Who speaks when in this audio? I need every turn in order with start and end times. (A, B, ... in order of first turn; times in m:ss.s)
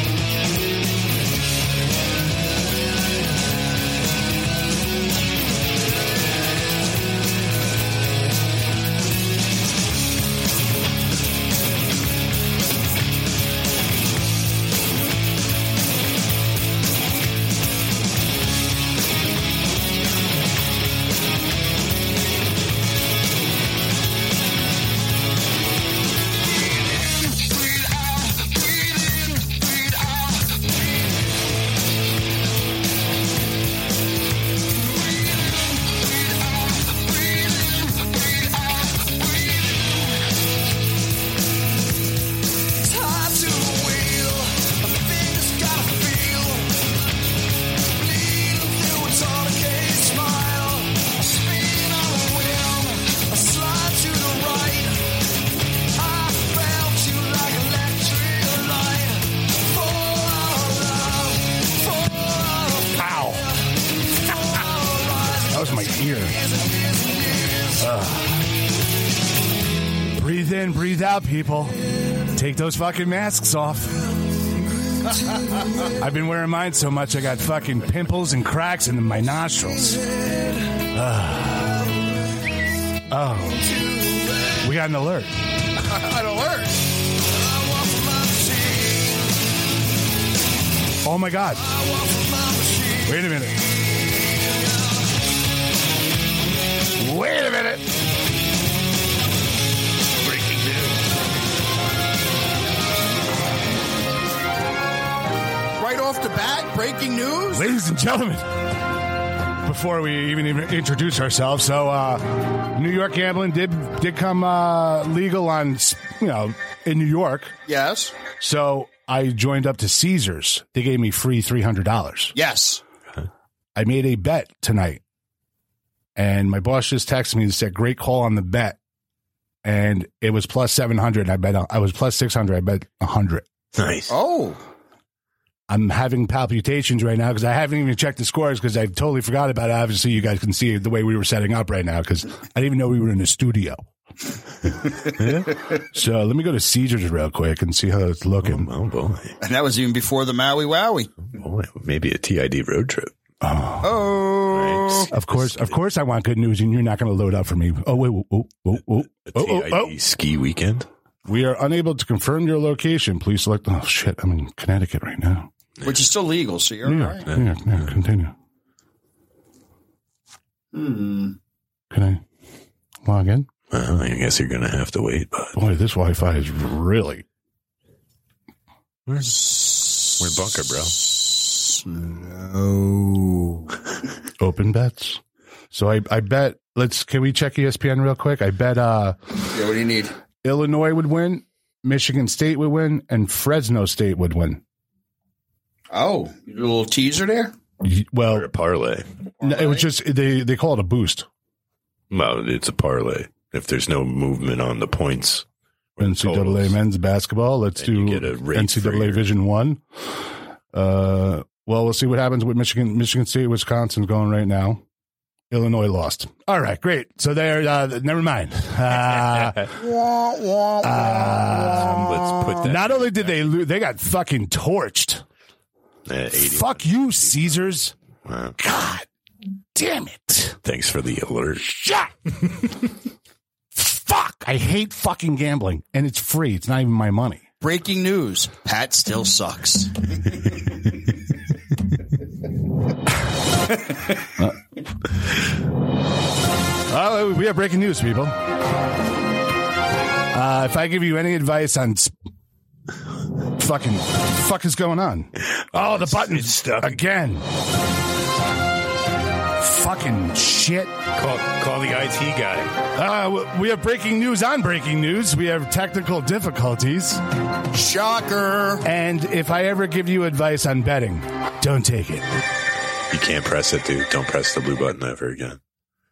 0:27.2-0:30.4 A
0:34.7-0:40.2 A
0:42.8-0:46.9 A
0:47.9-0:55.0 A
0:55.9-1:07.9 A
1:03.0-1:03.4 B
1:05.5-1:06.4 B
1:07.8-1:08.5 B
1:10.1-1:11.8 B
1:12.3-1:14.1 B
1:16.0-1:20.0 B
1:19.8-1:20.6 A
1:20.9-1:21.9 B
1:23.1-1:23.6 B
1:23.6-1:24.6 A
1:24.6-1:25.3 B
1:25.8-1:26.8 C
1:27.2-1:29.3 A
1:31.0-1:31.6 B
1:31.6-1:33.3 A
1:33.0-1:33.6 B
1:34.3-1:34.8 A
1:37.0-1:37.8 B
1:40.2-1:41.0 B
1:45.8-1:47.7 C
1:47.5-1:48.4 B
1:49.6-1:57.5 B
1:57.7-1:58.2 C
1:58.4-2:02.3 B
2:02.3-2:02.8 C
2:03.8-2:05.0 B
2:06.2-2:08.8 B
2:09.6-2:13.4 B
2:13.7-2:14.1 D
2:14.1-2:14.6 C
2:15.7-2:23.8 B
2:25.2-2:25.5 D
2:25.9-2:28.7 B
2:28.4-2:29.4 D
2:29.4-2:31.1 C
2:31.3-2:33.1 D
2:33.4-2:34.1 B
2:33.8-2:35.1 C
2:34.5-2:35.7 D
2:35.1-2:39.9 B
2:39.3-2:40.9 D
2:41.2-2:45.5 B
2:45.8-2:47.3 C
2:46.8-2:48.3 B
2:50.7-2:51.4 C
2:51.9-2:52.2 B
2:53.0-2:53.5 B
2:53.7-2:55.5 D
2:55.5-2:57.2 B
2:59.1-3:01.0 D
2:59.6-3:00.1 C
3:01.3-3:01.9 C
3:02.0-3:03.0 B
3:02.7-3:03.3 C
3:04.4-3:05.2 B
3:05.7-3:09.2 B
3:09.5-3:10.1 C
3:10.4-3:14.6 B
3:15.9-3:17.5 C
3:17.8-3:18.5 B
3:18.3-3:19.0 D
3:19.4-3:19.9 C
3:19.4-3:21.2 B
3:22.1-3:25.4 D
3:26.0-3:26.7 D
3:26.0-3:30.2 B
3:27.8-3:29.3 D
3:30.7-3:34.8 B
3:35.5-3:39.7 B
3:39.7-3:42.5 C
3:40.8-3:45.2 B
3:41.8-3:43.4 D
3:46.1-3:47.7 D
3:46.3-3:47.9 B
3:48.2-3:48.6 D
3:48.6-3:49.1 B
3:49.7-3:50.6 B
3:50.6-3:51.8 D
3:51.6-3:52.1 B
3:53.8-3:57.4 B
3:57.6-4:00.3 C
4:06.9-4:08.4 B
4:10.3-4:12.1 B
4:13.6-4:17.4 B
4:15.7-4:17.0 D
4:19.6-4:20.9 B
4:21.2-4:22.7 D
4:22.9-4:27.2 B
4:27.7-4:28.8 C
4:28.8-4:32.2 B
4:33.1-4:35.6 D